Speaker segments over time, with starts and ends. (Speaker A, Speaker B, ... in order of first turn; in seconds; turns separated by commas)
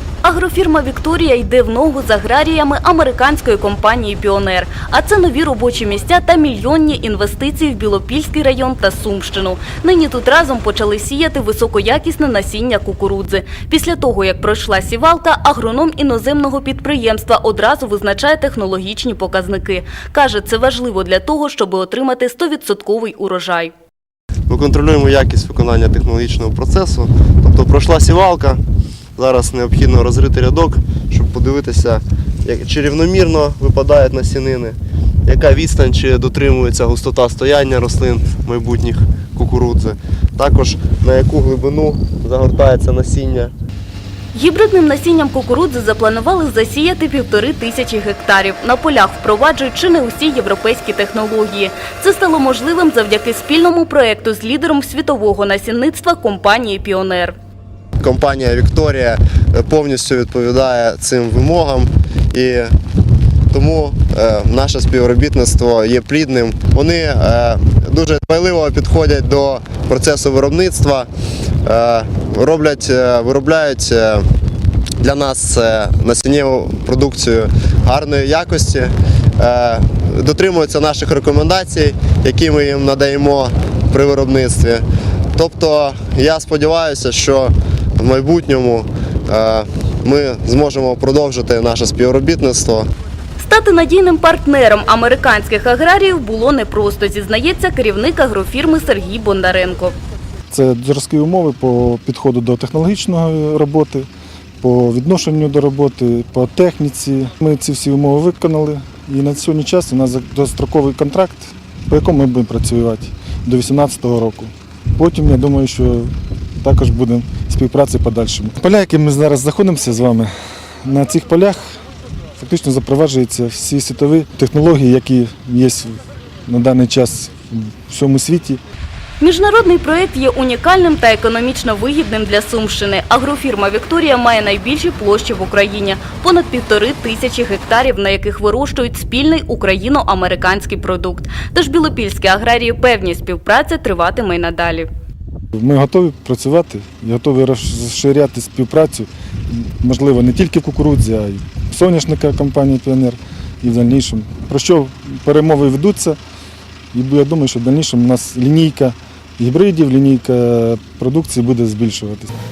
Speaker A: 0.2-23.7, Speaker B: 24.5-28.6, Speaker B: 29.2-43.5, Speaker A: 44.3-57.3, Speaker B: 58.0-62.7, Speaker B: 63.5-71.1, Speaker B: 71.6-74.2, Speaker B: 75.0-84.8, Speaker B: 85.3-92.9, Speaker A: 93.4-100.0, Speaker C: 100.5-104.1, Speaker C: 104.6-120.3, Speaker C: 120.8-121.8, Speaker C: 122.4-128.6, Speaker A: 129.2-144.9, Speaker C: 145.6-156.2, Speaker C: 156.9-162.3